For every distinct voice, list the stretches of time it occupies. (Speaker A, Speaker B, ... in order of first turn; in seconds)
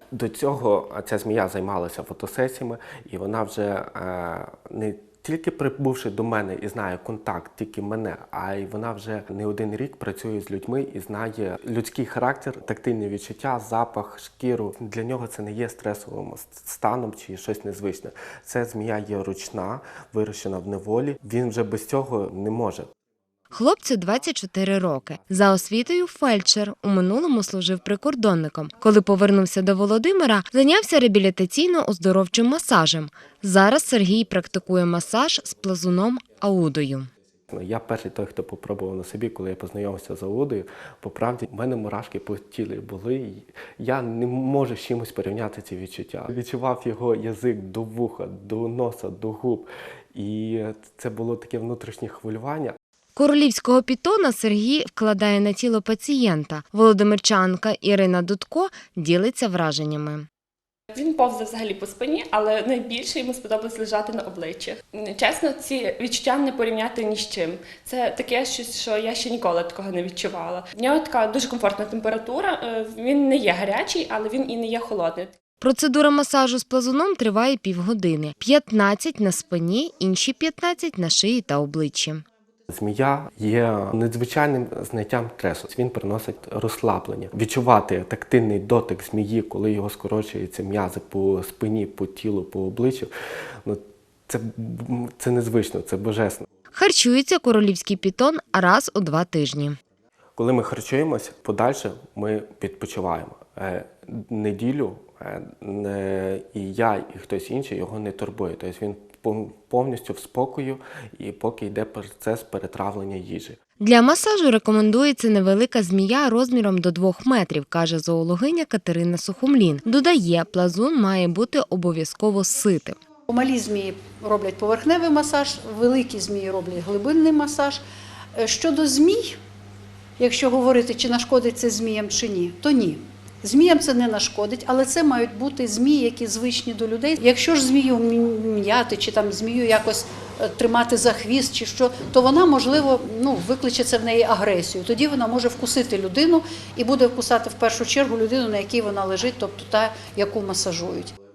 Speaker A: 0.1-22.9, 37.5-52.8, 82.7-93.1, 93.7-96.5, 100.4-113.6
Speaker B: 23.5-37.1, 53.2-60.3, 75.6-82.2, 96.7-99.8, 113.8-123.0
Speaker C: 60.9-75.3
Speaker D: 123.3-127.8, 128.3-129.4, 130.2-151.1